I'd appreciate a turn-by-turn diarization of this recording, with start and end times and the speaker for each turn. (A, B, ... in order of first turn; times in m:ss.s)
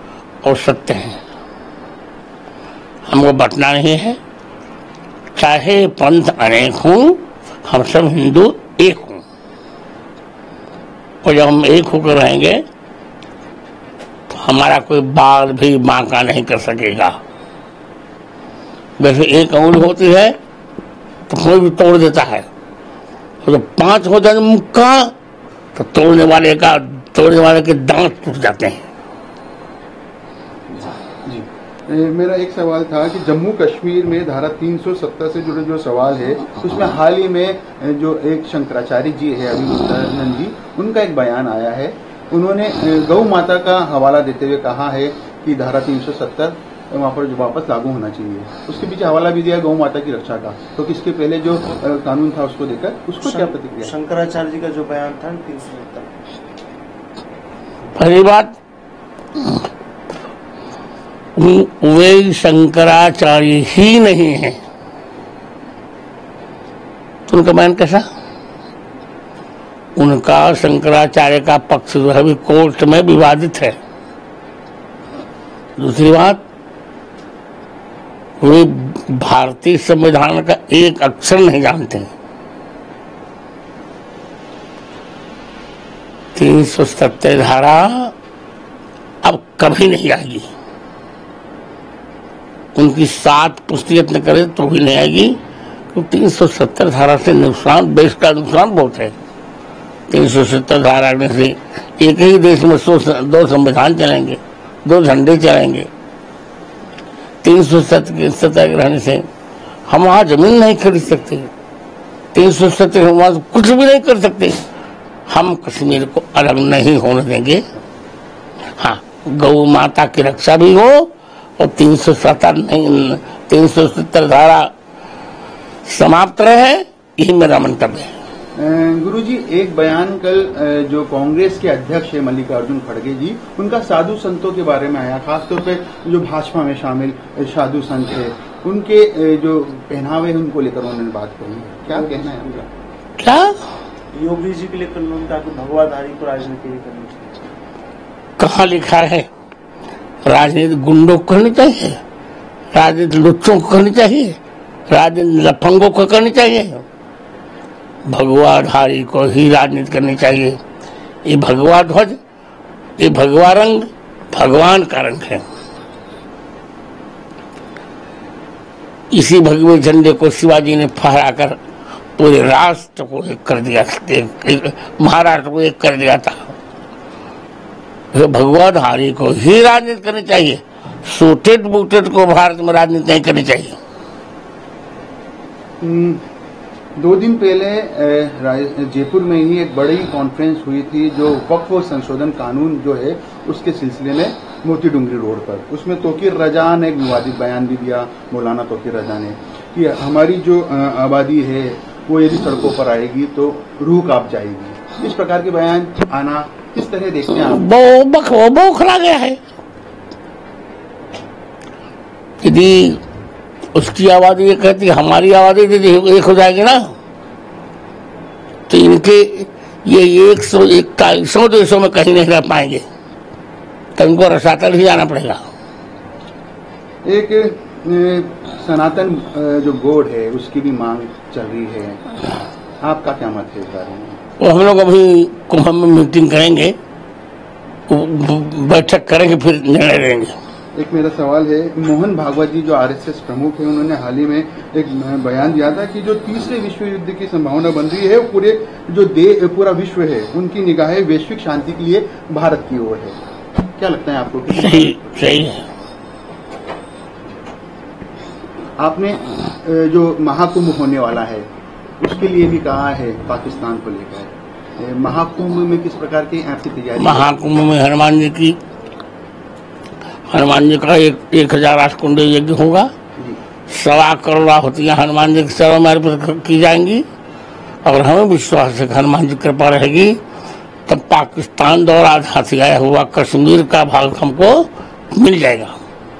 0:00.4-0:01.2 A
0:03.0-0:04.2 A
0:05.3-0:09.2 A
0:11.2-0:12.6 A
0:14.3-0:17.2 A
0:19.0-0:20.4 A
0:21.3-0:22.5 A
0:23.4-0:25.1 A
0:25.7-0:28.8 A
0:31.2-0:53.9 B
0:53.2-0:56.1 C
0:58.0-0:58.6 A
1:01.4-1:04.6 A
1:07.3-1:08.0 A
1:10.0-1:13.8 A
1:15.8-1:16.4 A
1:18.4-1:22.1 A
1:26.3-1:28.1 A
1:29.2-1:30.5 A
1:32.8-1:35.4 A
1:35.9-1:39.1 A
1:40.1-1:45.9 A
1:47.4-1:49.2 A
1:49.9-1:51.5 A
1:52.3-1:54.6 A
1:55.3-1:57.7 A
1:58.8-2:04.7 A
2:05.8-2:08.1 A
2:08.6-2:22.6 B
2:21.9-2:22.6 C
2:23.2-2:23.6 A
2:24.1-2:27.3 C
2:28.4-2:29.3 A
2:30.2-2:32.0 A
2:32.7-2:34.4 A
2:34.9-2:36.8 A
2:38.1-2:40.6 A
2:41.2-2:42.2 A
2:43.0-2:45.4 A
2:49.1-2:51.6 A
2:52.2-2:56.5 A
2:58.1-3:03.8 A
3:05.8-3:06.2 B
3:07.0-3:27.7 B
3:27.3-3:29.4 A
3:32.4-3:33.0 A
3:33.7-3:36.9 A
3:38.7-3:42.8 A
3:44.0-3:45.5 A
3:47.0-3:52.2 B
3:52.8-3:54.2 B
3:54.4-3:56.8 A
3:57.9-4:00.4 A
4:00.7-4:13.2 B
4:13.8-4:15.2 B
4:14.5-4:15.6 A
4:18.8-4:21.5 B
4:22.0-4:27.3 B
4:27.0-4:28.6 A
4:30.3-4:32.9 A
4:33.7-4:37.0 A
4:37.8-4:40.2 A
4:40.9-4:45.8 A